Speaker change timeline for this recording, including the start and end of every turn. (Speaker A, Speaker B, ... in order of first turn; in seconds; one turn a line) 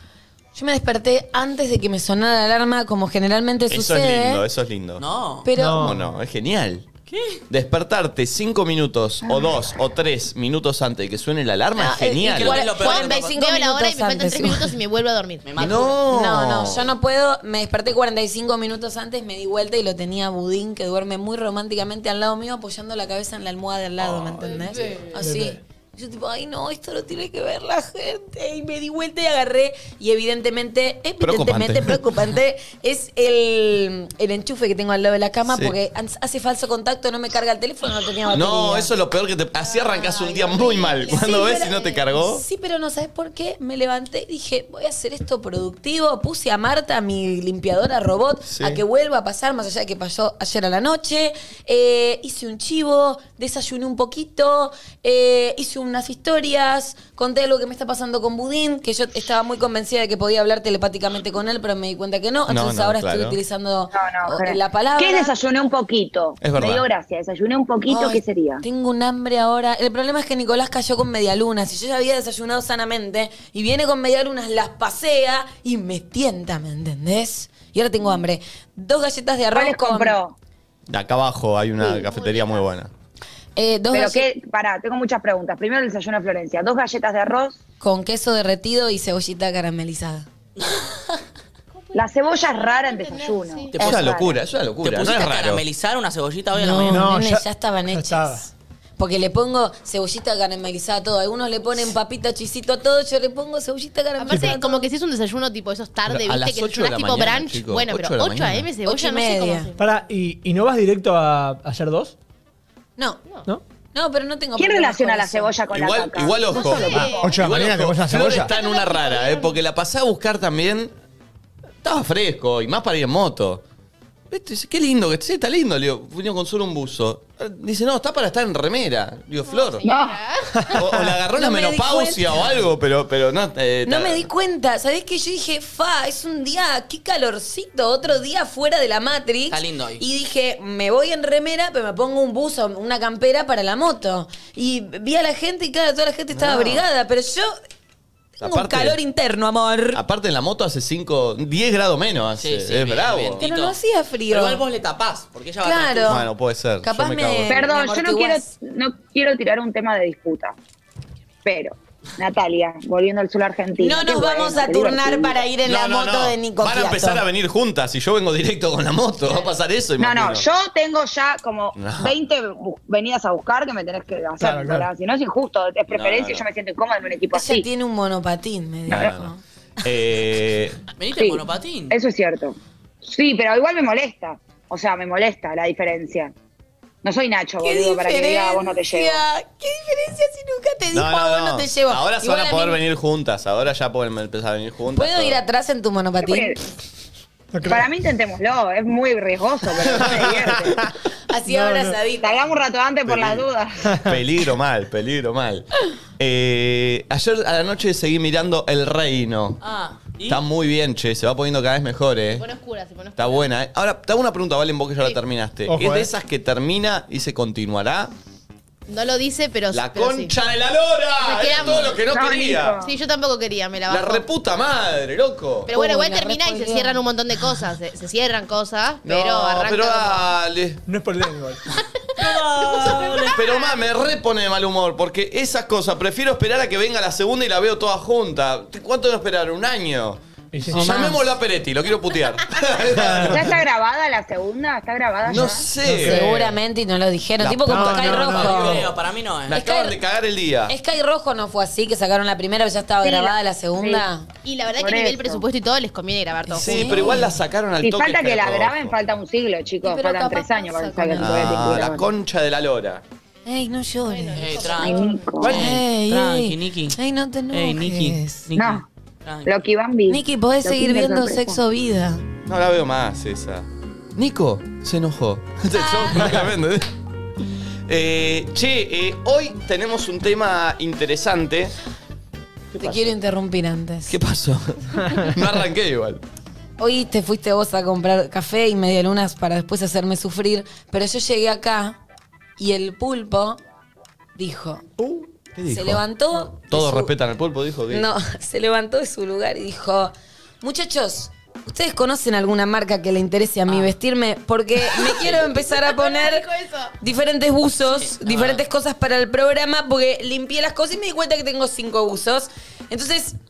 Speaker A: 0.5-4.4
Speaker B: 3.7-5.0
Speaker C: 5.0-5.5
Speaker A: 5.4-6.0
Speaker D: 5.5-6.0
Speaker B: 5.7-6.8
Speaker C: 7.1-7.4
Speaker B: 7.5-12.7
Speaker A: 11.8-14.7
Speaker C: 12.2-13.3
Speaker E: 12.7-15.8
Speaker C: 15.4-16.0
Speaker B: 15.6-16.9
Speaker A: 16.1-38.9
Speaker B: 24.0-24.5
Speaker E: 24.4-25.2
Speaker D: 25.2-25.6
Speaker B: 31.2-32.0
Speaker B: 35.5-35.8
Speaker B: 38.3-42.4
Speaker E: 39.6-42.0
Speaker A: 41.0-65.3
Speaker B: 48.5-48.8
Speaker B: 62.5-63.4
Speaker F: 63.9-68.6
Speaker B: 66.4-66.8
Speaker A: 67.9-80.2
Speaker F: 79.5-80.3
Speaker B: 80.9-82.9
Speaker E: 81.9-82.7
Speaker A: 83.5-84.2
Speaker F: 83.9-87.6
Speaker A: 87.8-90.3
Speaker C: 90.6-90.9
Speaker E: 91.8-93.8
Speaker F: 91.9-94.4
Speaker C: 93.7-94.0
Speaker B: 93.8-95.6
Speaker C: 94.8-97.1
Speaker A: 96.5-104.9
Speaker D: 96.8-98.5
Speaker E: 104.2-109.8
Speaker D: 104.3-104.6
Speaker B: 106.1-108.7
Speaker A: 108.8-109.7
Speaker D: 109.8-112.1
Speaker A: 113.0-113.2
Speaker A: 113.9-115.6
Speaker F: 114.6-117.4
Speaker B: 115.7-120.9
Speaker E: 116.5-119.6
Speaker D: 116.9-118.5
Speaker B: 121.8-123.6
Speaker B: 124.3-129.9
Speaker E: 129.5-130.8
Speaker F: 129.8-130.2
Speaker B: 130.7-134.3
Speaker A: 131.3-132.2
Speaker A: 133.8-147.5
Speaker C: 139.5-140.0
Speaker B: 146.3-146.8
Speaker A: 148.4-150.0
Speaker B: 148.4-149.0
Speaker B: 149.9-153.4
Speaker C: 152.4-153.8
Speaker A: 153.4-154.6
Speaker C: 154.3-156.2
Speaker A: 155.6-156.3
Speaker B: 156.0-157.6
Speaker A: 156.8-158.5
Speaker F: 157.5-160.5
Speaker F: 161.4-165.4
Speaker A: 163.8-167.2
Speaker B: 165.6-170.4
Speaker F: 170.0-177.7
Speaker B: 171.7-172.2
Speaker D: 174.4-174.9
Speaker B: 175.9-176.4
Speaker A: 177.3-179.4
Speaker B: 178.9-179.3
Speaker B: 179.8-180.8
Speaker C: 181.0-182.0
Speaker F: 181.2-186.3
Speaker F: 187.0-189.2
Speaker A: 187.6-192.8
Speaker B: 190.9-195.4
Speaker A: 194.9-196.5
Speaker F: 196.2-196.6
Speaker D: 197.5-197.9
Speaker F: 197.7-200.8
Speaker A: 201.3-202.4
Speaker D: 201.5-202.0
Speaker F: 202.2-204.0
Speaker B: 203.0-203.4
Speaker B: 204.0-209.6
Speaker C: 209.6-210.4
Speaker B: 210.2-212.4
Speaker E: 212.3-213.5
Speaker B: 213.2-218.1
Speaker D: 215.7-216.1
Speaker E: 218.9-220.4
Speaker B: 219.7-222.8
Speaker E: 221.2-222.1
Speaker F: 221.8-222.9
Speaker E: 222.8-224.2
Speaker B: 223.9-225.7
Speaker E: 225.7-230.3
Speaker A: 225.7-227.0
Speaker B: 229.0-230.8
Speaker D: 230.9-231.6
Speaker E: 232.0-233.8
Speaker C: 232.2-233.4
Speaker B: 233.0-243.6
Speaker D: 240.5-240.8
Speaker A: 240.7-241.3
Speaker D: 242.9-243.4
Speaker F: 243.3-245.7
Speaker B: 245.2-246.3
Speaker D: 245.5-246.5
Speaker A: 245.8-248.9
Speaker B: 247.4-248.9
Speaker D: 247.7-248.8
Speaker C: 248.0-249.6
Speaker B: 249.5-250.7
Speaker A: 249.5-249.9
Speaker A: 250.7-254.3
Speaker F: 253.0-254.0
Speaker E: 254.4-257.2
Speaker F: 254.8-255.4
Speaker A: 256.5-257.3
Speaker B: 256.6-258.9
Speaker F: 257.8-262.1
Speaker A: 259.8-261.9
Speaker B: 261.2-263.0
Speaker A: 263.4-264.8
Speaker E: 264.0-265.4
Speaker C: 264.3-267.0
Speaker F: 264.8-265.6
Speaker D: 265.4-265.7
Speaker A: 265.4-268.5
Speaker C: 267.5-269.5
Speaker F: 268.5-268.8
Speaker F: 269.4-271.6
Speaker A: 270.1-272.2
Speaker B: 272.4-276.9
Speaker A: 275.7-276.5
Speaker B: 277.9-281.7
Speaker A: 282.7-284.2
Speaker B: 282.8-283.1
Speaker B: 284.1-286.2
Speaker A: 286.8-292.0
Speaker A: 292.6-293.6
Speaker A: 294.4-294.9
Speaker D: 295.0-295.2
Speaker B: 295.6-296.0
Speaker A: 295.7-297.1
Speaker B: 296.7-298.1
Speaker A: 297.9-306.5
Speaker C: 305.1-305.5
Speaker E: 305.4-306.9
Speaker A: 307.0-313.3
Speaker C: 307.9-308.6